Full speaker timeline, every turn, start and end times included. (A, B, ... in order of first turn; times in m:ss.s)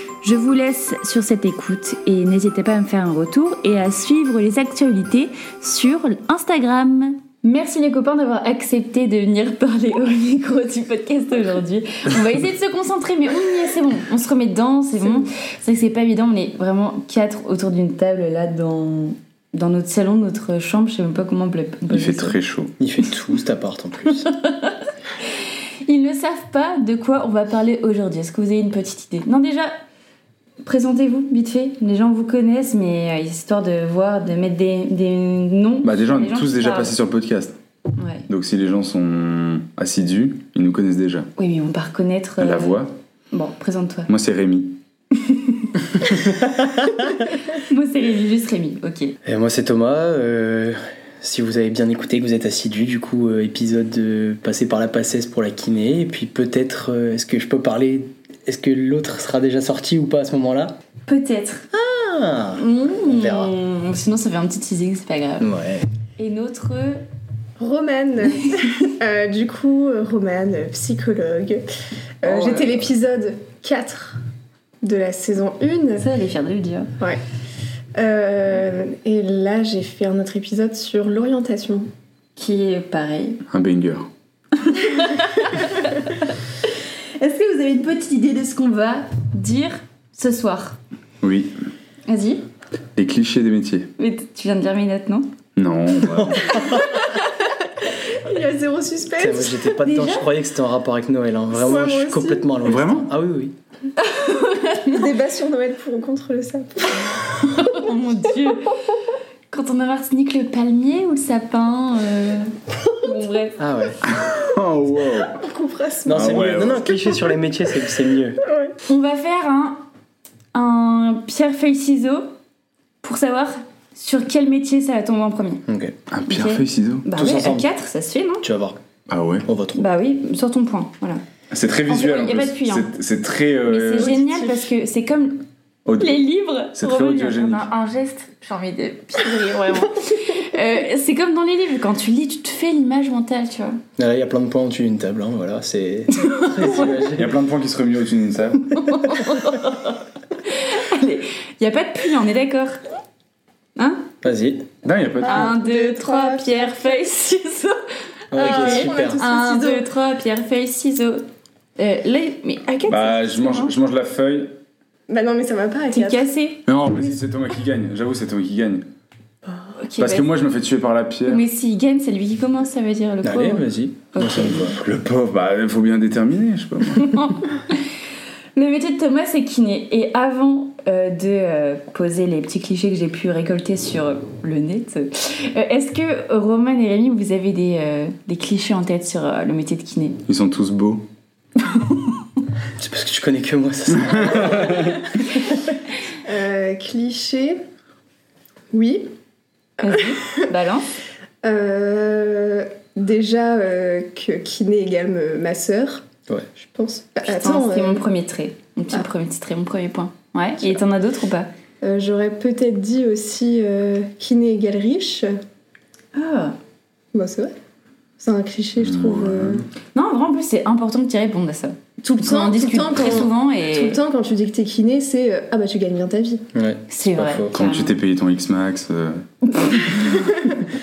0:00.2-0:22.4 A
0:21.9-0:22.7 B
0:22.8-0:24.2 C
0:24.2-0:24.8 A
0:25.8-0:29.7 A
0:30.6-0:37.0 A
0:35.8-0:37.6 B
0:37.9-0:38.2 A
0:38.3-0:41.3 B
0:41.4-0:44.1 A
0:42.4-0:42.9 B
0:44.1-0:44.8 B
0:45.2-0:45.7 A
0:46.2-0:46.9 C
0:47.5-0:49.2 A
0:49.2-1:00.7 C
1:01.0-1:01.6 A
1:01.7-1:03.5 C
1:02.6-1:05.5 A
1:05.4-1:05.8 C
1:06.2-1:07.0 A
1:07.6-1:11.6 D
1:12.2-1:14.2 D
1:14.8-1:16.0 D
1:16.0-1:16.9 A
1:18.0-1:21.9 D
1:22.4-1:23.4 A
1:23.5-1:24.1 B
1:24.6-1:26.3 A
1:27.2-1:30.8 A
1:31.2-1:31.5 B
1:32.1-1:32.4 A
1:33.0-1:33.9 B
1:34.0-1:35.3 A
1:35.6-1:36.6 B
1:36.4-1:37.4 A
1:38.0-1:39.7 D
1:39.2-1:43.5 C
1:39.8-1:40.2 A
1:41.5-1:42.5 D
1:42.6-1:43.1 B
1:44.0-1:45.0 A
1:44.9-1:47.1 D
1:47.2-1:48.7 A
1:49.5-1:53.6 A
1:53.6-1:54.0 C
1:54.0-1:55.4 B
1:55.4-1:57.2 D
1:56.0-1:58.4 C
1:56.1-1:57.0 B
1:58.5-1:58.7 D
1:58.8-1:59.8 A
2:00.5-2:02.3 A
2:03.0-2:05.6 A
2:05.7-2:06.0 C
2:06.1-2:07.0 B
2:06.2-2:08.4 A
2:07.1-2:07.6 C
2:08.4-2:08.8 C
2:09.1-2:09.4 B
2:09.4-2:09.9 C
2:09.7-2:11.2 A
2:11.5-2:14.2 B
2:11.9-2:12.9 A
2:13.6-2:15.4 A
2:14.0-2:14.7 D
2:15.8-2:16.2 B
2:16.0-2:23.8 A
2:16.7-2:17.7 B
2:24.0-2:27.4 C
2:26.2-2:27.1 A
2:27.2-2:28.7 B
2:28.7-2:32.8 A
2:33.8-2:34.1 A
2:34.2-2:34.7 C
2:34.8-2:35.6 B
2:35.2-2:37.0 D
2:35.2-2:37.8 A
2:38.3-2:39.2 C
2:38.3-2:41.2 A
2:38.4-2:39.8 D
2:41.8-2:43.7 A
2:42.9-2:44.5 B
2:45.1-2:46.2 D
2:45.9-2:46.6 A
2:46.6-2:48.8 B
2:49.8-2:50.2 A
2:50.0-2:51.4 B
2:51.2-2:54.7 A
2:53.2-2:54.8 C
2:54.6-2:57.3 B
2:57.0-2:57.8 A
2:58.5-3:10.2 A
3:10.2-3:11.0 B
3:11.7-3:12.0 A
3:12.8-3:15.5 C
3:14.0-3:15.0 B
3:16.2-3:17.6 D
3:18.7-3:19.1 D
3:19.8-3:20.9 A
3:21.4-3:26.0 D
3:26.6-3:28.0 D
3:27.2-3:31.5 A
3:31.8-3:35.3 D
3:36.1-3:36.5 A
3:37.1-3:37.5 D
3:38.2-3:39.6 D
3:38.8-3:39.6 B
3:39.9-3:44.0 A
3:42.2-3:46.4 D
3:46.5-3:47.5 C
3:46.9-3:47.9 A
3:47.5-3:49.2 B
3:50.1-3:50.5 D